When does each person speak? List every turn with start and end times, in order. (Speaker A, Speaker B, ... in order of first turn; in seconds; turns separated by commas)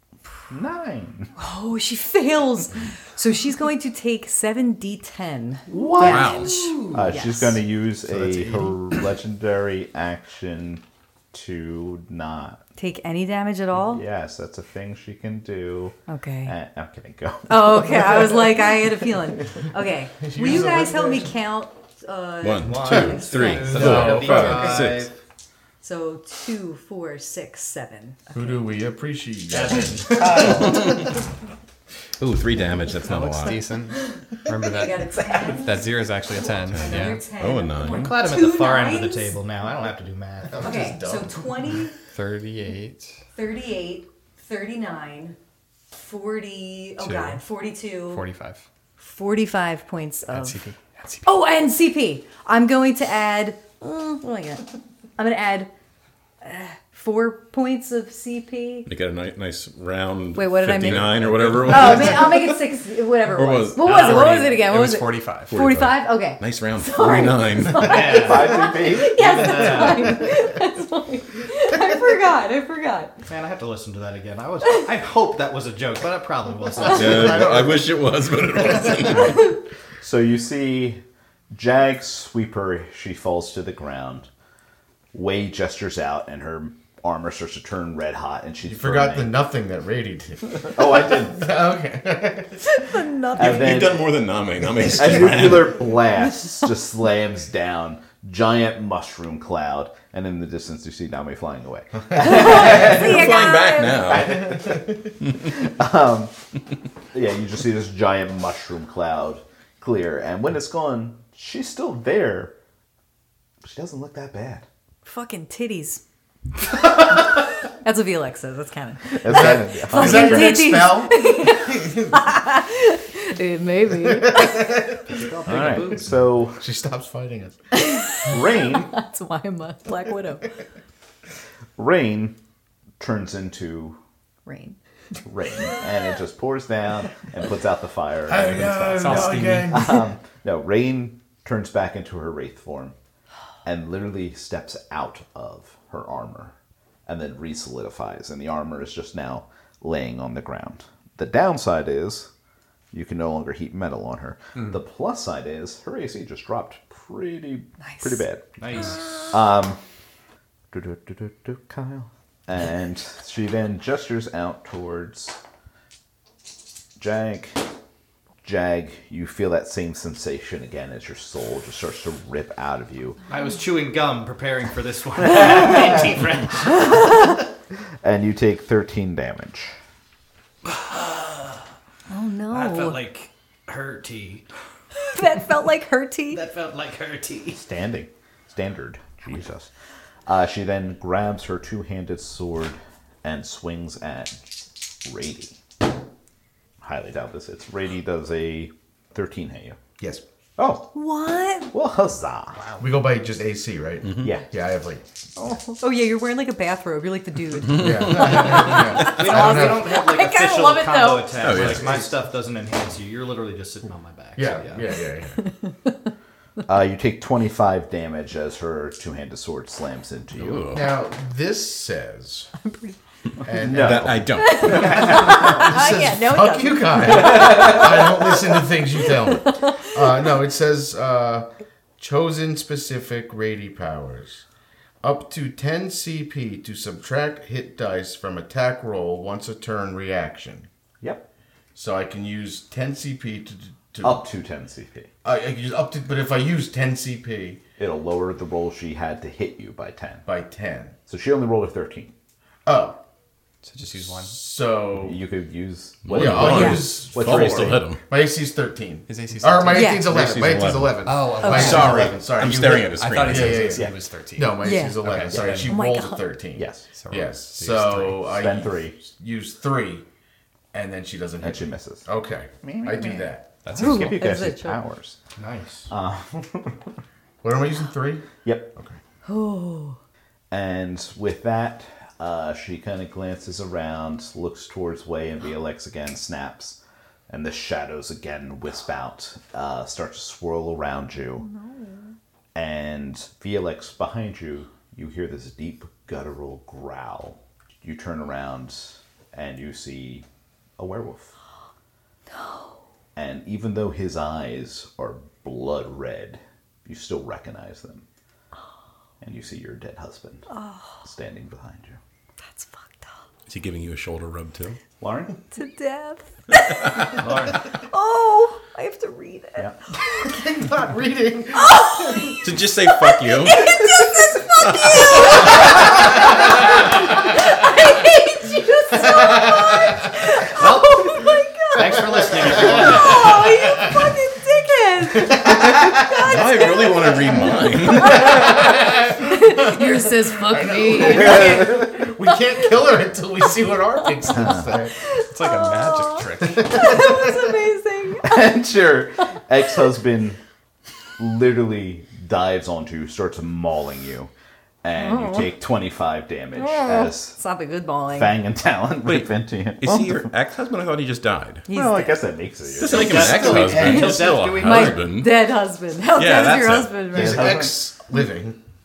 Speaker A: 0.5-1.3, Speaker B: 1.4-7.6, Speaker A: 5.7-12.6, Speaker C: 6.1-6.7, Speaker D: 6.1-6.5, Speaker B: 12.8-14.0, Speaker A: 13.9-18.5, Speaker B: 16.1-16.5, Speaker B: 17.5-23.9, Speaker E: 20.2-21.3, Speaker D: 22.4-25.1, Speaker F: 22.6-25.1, Speaker E: 23.8-24.8, Speaker B: 25.8-28.5, Speaker E: 28.3-30.9, Speaker F: 29.5-30.7, Speaker D: 30.5-31.0, Speaker D: 32.2-33.6, Speaker C: 33.1-37.2, Speaker B: 34.0-35.9, Speaker D: 36.7-38.2, Speaker B: 36.8-39.4, Speaker F: 37.8-40.8, Speaker E: 40.5-41.9, Speaker B: 40.6-42.0, Speaker C: 42.1-43.2, Speaker B: 43.4-45.4, Speaker B: 45.9-48.2, Speaker C: 47.0-47.4, Speaker C: 48.0-48.6, Speaker B: 49.0-50.6, Speaker C: 50.3-51.3, Speaker B: 51.2-55.7, Speaker B: 56.4-58.9, Speaker D: 58.9-62.6, Speaker B: 60.4-73.2, Speaker D: 63.3-64.5, Speaker C: 63.9-65.5, Speaker D: 65.5-68.1, Speaker F: 67.8-70.3, Speaker A: 68.0-69.6, Speaker F: 73.3-77.6, Speaker D: 76.9-79.4, Speaker E: 77.0-78.0, Speaker A: 80.0-84.3, Speaker A: 85.1-89.4, Speaker E: 88.7-92.7, Speaker A: 90.7-91.5, Speaker B: 92.6-93.8, Speaker A: 93.4-94.1, Speaker D: 93.4-95.8, Speaker A: 94.9-103.4, Speaker B: 102.2-104.2, Speaker D: 102.4-104.6, Speaker A: 104.0-106.3, Speaker A: 107.1-112.5, Speaker A: 113.6-114.7, Speaker B: 115.0-116.0, Speaker B: 116.7-124.8, Speaker A: 119.1-120.7, Speaker E: 119.2-122.2, Speaker E: 124.0-125.2, Speaker F: 125.0-126.1, Speaker A: 125.5-126.6, Speaker E: 126.6-127.6, Speaker B: 127.7-130.5, Speaker A: 128.3-128.9, Speaker A: 131.8-132.4, Speaker A: 133.0-134.0, Speaker B: 134.5-134.8, Speaker A: 135.2-142.9, Speaker E: 138.3-140.0, Speaker C: 139.0-139.9, Speaker A: 143.6-146.6, Speaker A: 147.1-152.3, Speaker A: 152.9-158.6, Speaker B: 157.8-158.2, Speaker F: 158.6-159.3, Speaker B: 159.1-159.3, Speaker A: 159.3-159.8, Speaker A: 160.7-165.4, Speaker A: 167.0-167.6, Speaker A: 168.4-173.2, Speaker F: 173.3-177.2, Speaker A: 178.0-179.8, Speaker F: 180.7-181.6, Speaker B: 182.1-183.0, Speaker F: 182.5-184.5, Speaker B: 185.1-186.4, Speaker F: 186.3-187.6, Speaker A: 187.6-189.7, Speaker A: 190.3-195.6, Speaker A: 196.8-199.8, Speaker A: 200.6-200.9, Speaker B: 200.9-201.7, Speaker A: 201.7-202.6, Speaker C: 202.6-202.8, Speaker E: 202.8-205.0, Speaker B: 205.4-211.5, Speaker E: 207.7-209.9, Speaker F: 208.9-214.9, Speaker D: 211.4-212.0, Speaker E: 211.6-212.0, Speaker E: 214.4-215.5, Speaker B: 215.4-215.9, Speaker A: 216.7-220.7, Speaker D: 220.4-220.9, Speaker E: 220.7-222.5, Speaker B: 222.6-223.0, Speaker E: 223.4-231.5, Speaker A: 223.6-225.4, Speaker D: 223.7-225.1, Speaker B: 224.4-228.4, Speaker B: 229.3-229.8, Speaker E: 232.0-234.4, Speaker E: 235.0-240.7, Speaker E: 241.8-244.2, Speaker A: 244.0-245.1, Speaker E: 245.2-247.6, Speaker A: 247.8-250.3, Speaker E: 250.3-251.0, Speaker A: 251.1-252.1, Speaker E: 252.7-253.0, Speaker C: 253.6-254.4, Speaker E: 253.9-255.2, Speaker A: 255.0-257.9, Speaker D: 256.1-258.0, Speaker E: 256.1-270.1, Speaker B: 256.5-256.8, Speaker C: 259.1-259.9, Speaker B: 259.7-260.1, Speaker D: 260.0-263.8, Speaker C: 261.1-262.1, Speaker B: 261.4-261.8, Speaker C: 262.9-265.7, Speaker A: 263.7-264.0, Speaker B: 264.6-265.0, Speaker A: 265.3-265.7, Speaker B: 265.6-266.3, Speaker A: 266.6-266.9, Speaker C: 267.0-268.2, Speaker A: 268.3-269.0, Speaker E: 270.7-273.5, Speaker A: 271.4-275.2, Speaker C: 273.6-274.1, Speaker B: 273.7-274.8, Speaker F: 275.4-275.9, Speaker A: 275.9-276.9, Speaker E: 277.4-279.0, Speaker A: 278.4-278.7, Speaker B: 279.2-280.0, Speaker A: 280.5-286.8, Speaker A: 287.3-291.5, Speaker B: 291.4-292.2, Speaker A: 292.6-300.3, Speaker A: 300.8-301.3, Speaker B: 302.3-302.8, Speaker A: 303.2-308.1, Speaker A: 309.2-310.5, Speaker B: 310.5-311.0, Speaker A: 311.0-312.0, Speaker B: 312.4-313.1, Speaker D: 313.5-314.8, Speaker A: 315.0-315.4, Speaker B: 315.5-320.5, Speaker F: 317.2-317.6, Speaker E: 320.2-322.5, Speaker B: 321.5-342.1, Speaker D: 322.4-323.7, Speaker A: 324.0-324.4, Speaker D: 324.6-325.4, Speaker E: 329.0-329.9, Speaker F: 330.5-331.1, Speaker F: 331.7-333.4, Speaker E: 332.9-334.1, Speaker E: 335.2-336.1, Speaker D: 336.1-338.6, Speaker E: 338.0-344.9, Speaker A: 341.0-341.9, Speaker A: 344.3-344.6, Speaker B: 345.0-348.6, Speaker C: 345.2-347.1, Speaker E: 346.6-347.4, Speaker A: 348.2-350.4, Speaker A: 351.2-354.3, Speaker A: 354.8-357.4, Speaker B: 354.9-355.6, Speaker B: 356.6-358.4, Speaker A: 358.1-360.3, Speaker D: 359.1-361.7, Speaker B: 361.7-362.2, Speaker A: 361.7-363.2, Speaker D: 362.8-365.5, Speaker F: 362.9-365.1, Speaker E: 362.9-363.9, Speaker B: 363.8-367.6, Speaker D: 366.2-367.1, Speaker E: 367.1-368.6, Speaker A: 367.1-367.8